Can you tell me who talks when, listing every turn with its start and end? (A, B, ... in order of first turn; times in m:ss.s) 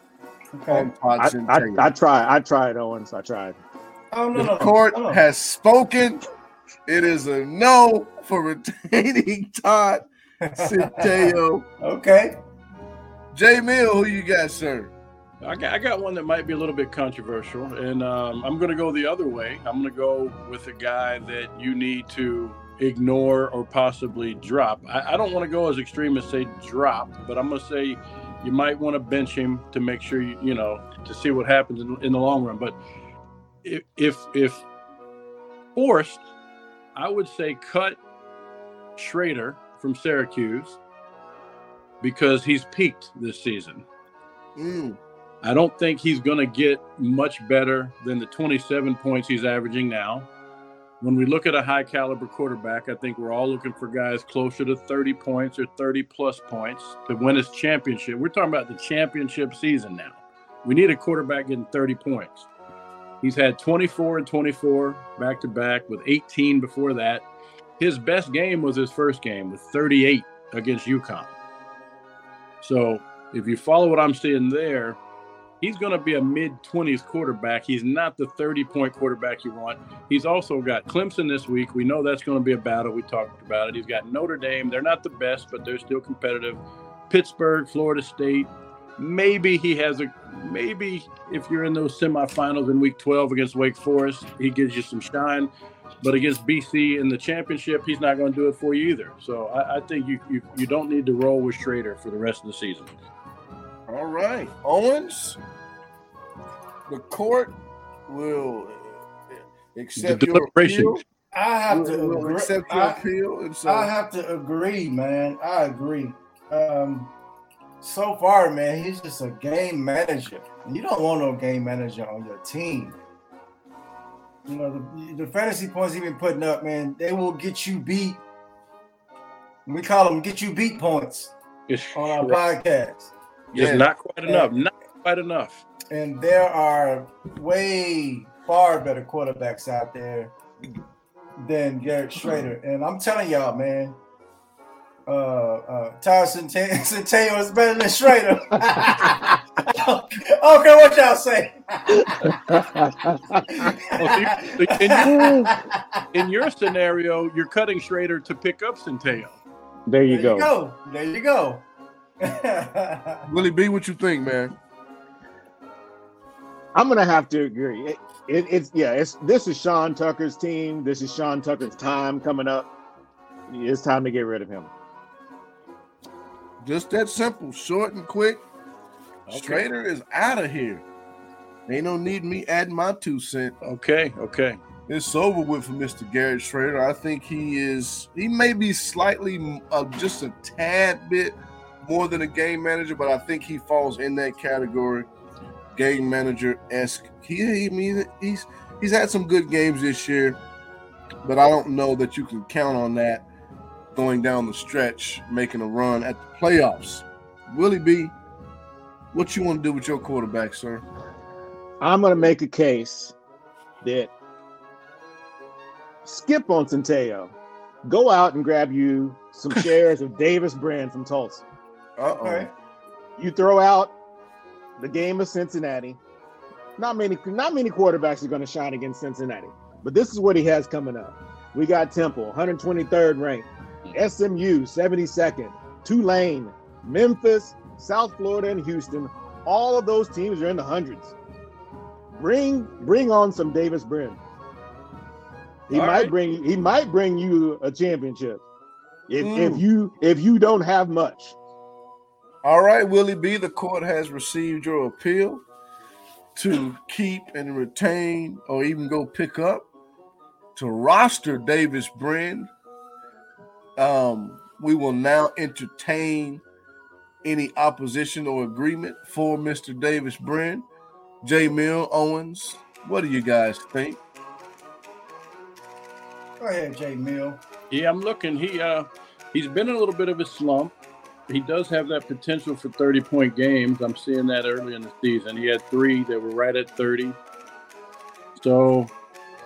0:00.5-0:00.9 A
0:00.7-0:01.9 B
0:01.2-0:03.6 C
0:04.1-0:05.2 A
0:04.4-0:06.2 B
0:06.9-0:10.0 B
0:10.4-0:12.4 A
0:10.6-0:11.7 B
0:13.3-0:14.9 B
0:15.4-0:32.8 D
0:33.6-0:34.6 D
0:35.8-0:36.2 D
0:37.0-0:38.0 D
0:39.0-0:40.8 D
0:42.0-0:43.9 D
0:44.6-0:45.0 B
0:45.4-0:50.3 D
0:51.0-1:02.5 D
1:03.2-1:07.3 D
1:07.8-1:11.3 D
1:12.6-1:15.0 D
1:15.6-1:35.5 D
1:36.0-1:42.9 D
1:43.9-1:45.4 B
1:46.9-1:47.6 B
1:48.1-1:49.0 B
1:49.7-1:51.0 B
1:50.0-1:51.0 D
1:51.3-1:53.0 A
1:51.7-1:53.9 B
1:53.6-1:57.1 A
1:57.8-2:03.0 A
2:04.5-2:08.2 A
2:09.7-2:11.3 A
2:11.7-2:12.4 D
2:11.9-2:13.1 A
2:13.5-2:13.9 B
2:13.5-2:15.6 D
2:15.9-2:20.3 A
2:21.4-2:24.0 A
2:25.1-2:32.4 A
2:32.2-2:33.6 C
2:33.5-2:36.1 A
2:34.0-2:35.6 D
2:36.1-2:39.4 D
2:39.9-2:40.5 C
2:40.1-2:41.7 A
2:42.2-2:43.3 A
2:43.3-2:44.6 B
2:46.7-2:52.7 C
2:53.5-2:54.7 C
2:56.6-2:58.4 B
2:59.3-2:59.6 D
2:59.3-3:00.8 B
3:01.7-3:03.5 B
3:03.6-3:04.6 D
3:04.9-3:15.1 B
3:15.8-3:20.4 B
3:21.2-3:23.3 B
3:24.0-3:28.2 B
3:29.1-3:30.8 B
3:31.8-3:33.2 C
3:33.8-3:34.1 C
3:36.0-3:41.4 C
3:42.0-3:42.5 B
3:42.0-3:42.5 A
3:43.2-3:43.9 C
3:44.8-3:46.0 C
3:46.8-4:01.2 C
4:02.1-4:04.2 C
4:05.7-4:08.5 C
4:05.7-4:06.1 D
4:09.1-4:11.4 C
4:09.2-4:09.6 B
4:12.4-4:15.4 B
4:16.4-4:19.7 B
4:20.6-4:22.5 B
4:23.8-4:26.4 B
4:27.2-4:30.7 B
4:31.2-4:34.0 B
4:36.4-4:37.4 A
4:37.7-4:40.7 D
4:41.3-4:47.2 D
4:48.4-4:48.9 D